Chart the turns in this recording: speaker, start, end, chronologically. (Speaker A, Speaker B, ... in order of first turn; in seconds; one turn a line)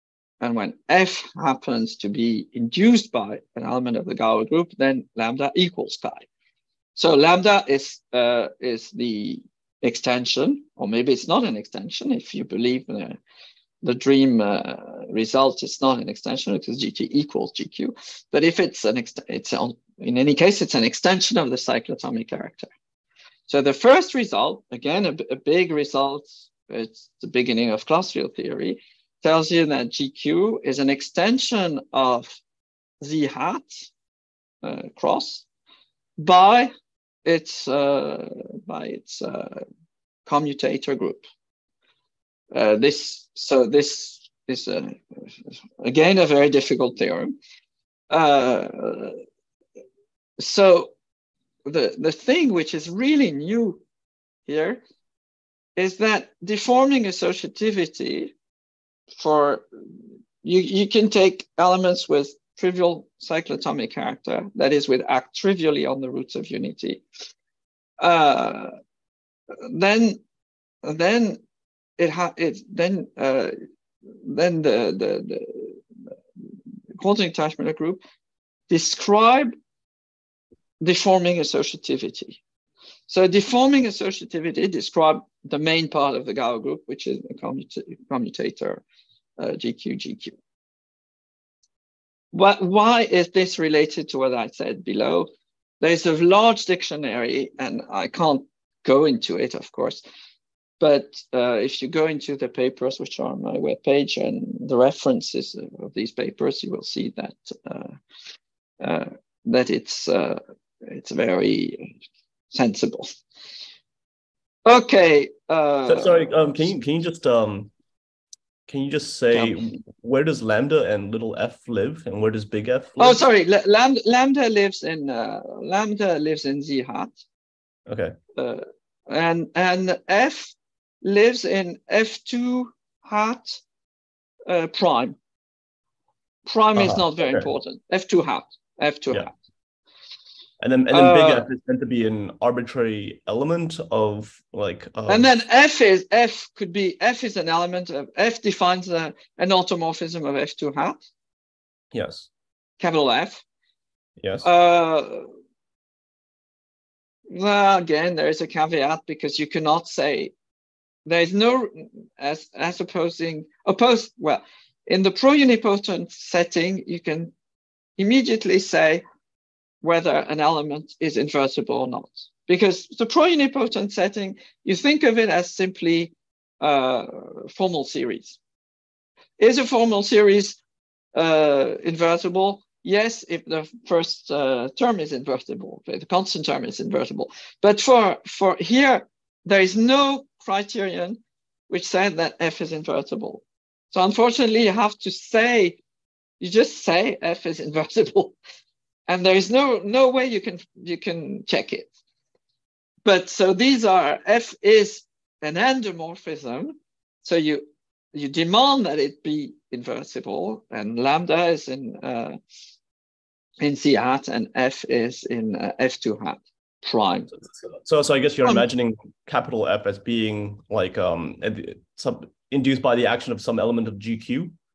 Speaker A: 0.4-6.3
Speaker A: 7.0-13.2
Speaker A: 13.8-22.7
Speaker A: 23.5-32.4
Speaker A: 33.0-33.9
Speaker A: 34.6-35.5
Speaker A: 36.2-36.7
Speaker A: 37.2-39.6
Speaker A: 40.3-41.2
Speaker A: 42.5-45.3
Speaker A: 45.8-47.3
Speaker A: 48.1-49.2
Speaker A: 50.4-50.9
Speaker A: 51.7-53.8
Speaker A: 54.5-54.8
Speaker A: 55.8-58.3
Speaker A: 59.2-59.7
Speaker A: 60.4-67.0
Speaker A: 68.0-68.7
Speaker A: 69.6-70.2
Speaker A: 70.8-71.4
Speaker A: 72.0-73.5
Speaker A: 74.2-75.8
Speaker A: 77.0-78.0
Speaker A: 78.7-79.5
Speaker A: 80.8-82.4
Speaker A: 83.1-88.8
Speaker A: 89.4-90.3
Speaker A: 92.3-95.3
Speaker A: 95.8-100.0
Speaker A: 100.8-108.0
Speaker A: 108.8-111.9
Speaker A: 112.5-113.1
Speaker A: 114.7-116.5
Speaker B: 115.9-117.7
Speaker B: 118.7-123.2
Speaker A: 119.3-119.8
Speaker A: 123.0-127.2
Speaker B: 127.9-128.2
Speaker A: 128.4-133.6
Speaker A: 134.5-135.2
Speaker A: 136.5-139.3
Speaker B: 136.8-137.5
Speaker B: 140.6-145.3
Speaker A: 140.9-141.5
Speaker A: 145.1-151.0
Speaker B: 151.9-152.3
Speaker A: 152.8-153.4
Speaker B: 154.2-154.5
Speaker A: 154.4-155.3
Speaker A: 157.3-160.3
Speaker A: 161.1-167.3
Speaker A: 168.0-169.0
Speaker A: 169.8-178.4
Speaker A: 179.4-180.6
Speaker A: 181.2-195.8
Speaker A: 196.4-198.3
Speaker A: 199.1-201.9
Speaker A: 203.1-212.4
Speaker A: 213.6-217.3
Speaker B: 217.7-224.6